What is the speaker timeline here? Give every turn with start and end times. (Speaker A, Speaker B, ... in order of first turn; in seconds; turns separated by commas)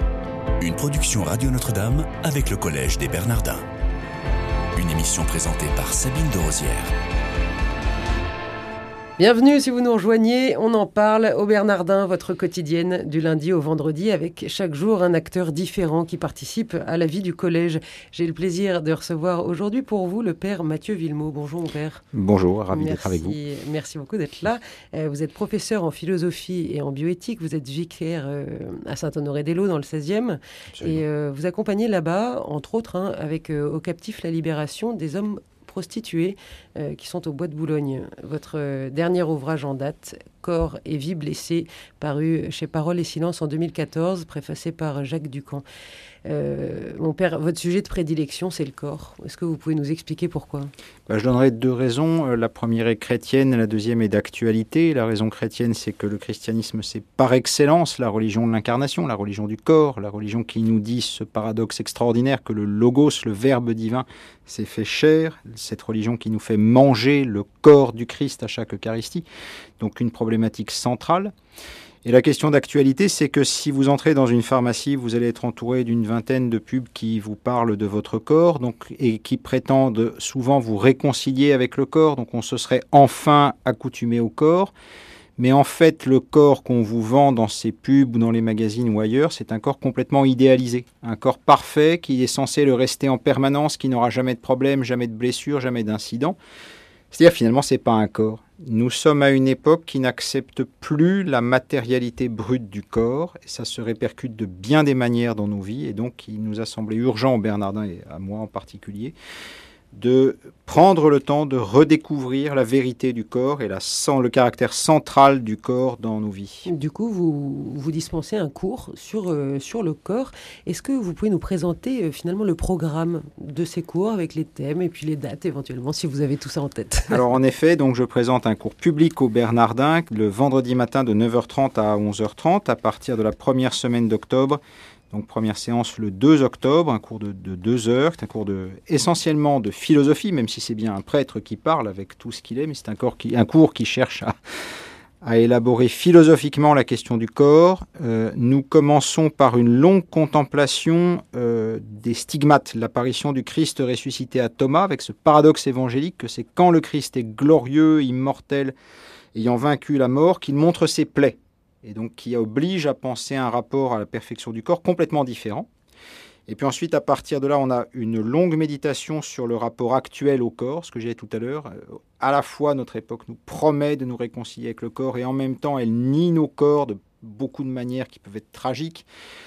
Speaker A: 0.6-3.6, Speaker A: 4.8-6.9, Speaker B: 9.2-22.0, Speaker C: 22.1-23.4, Speaker B: 22.7-45.6, Speaker C: 30.7-31.0, Speaker B: 46.2-50.7, Speaker C: 51.1-69.2, Speaker C: 69.8-71.3, Speaker C: 72.0-84.7, Speaker C: 85.4-96.4, Speaker C: 97.1-109.1, Speaker C: 109.9-116.7, Speaker B: 116.7-127.2, Speaker C: 127.1-134.6, Speaker C: 135.1-144.3, Speaker C: 145.2-158.7, Speaker C: 159.3-165.7, Speaker C: 166.5-179.1